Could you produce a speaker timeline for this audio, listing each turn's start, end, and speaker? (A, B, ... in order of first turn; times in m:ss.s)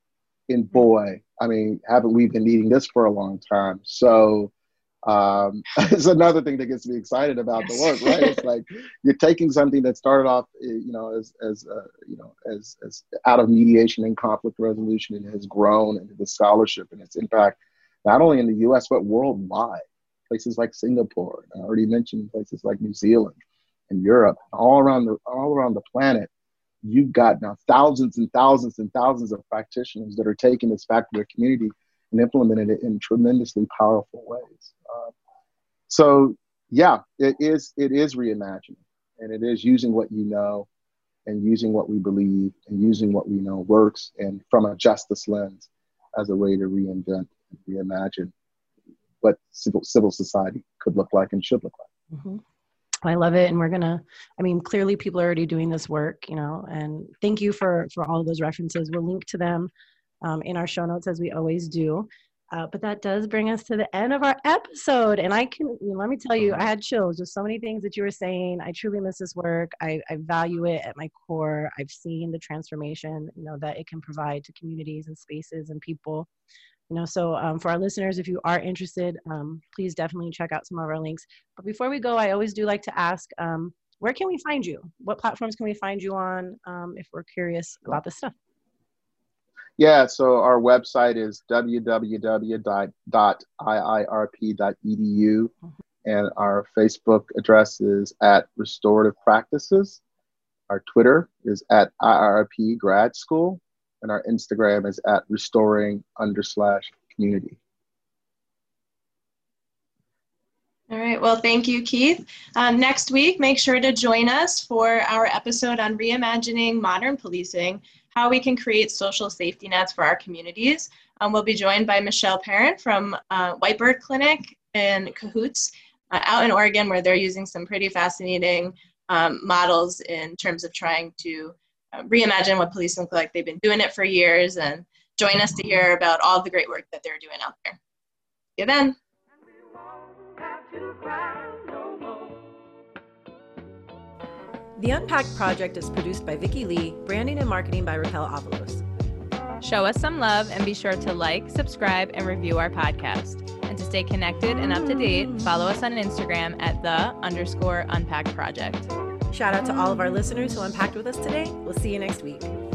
0:00.5-0:04.5 A
0:05.0-0:23.4 A
0:23.9-0:26.3 A
0:26.8-0:35.1 A
0:35.9-0:40.7 A
0:41.2-0:48.3 A
0:49.2-0:51.9 A
0:52.1-0:52.4 B
0:53.0-0:59.7 B
1:00.2-1:16.3 B
1:16.9-1:28.3 B
1:29.8-1:35.5 A
1:36.0-1:40.0 A
1:40.7-1:47.6 A
1:50.9-2:17.8 C
2:18.6-2:19.0 C
2:20.7-2:21.9 B
2:24.8-2:28.8 B
2:29.6-2:38.9 D
2:39.3-2:42.5 B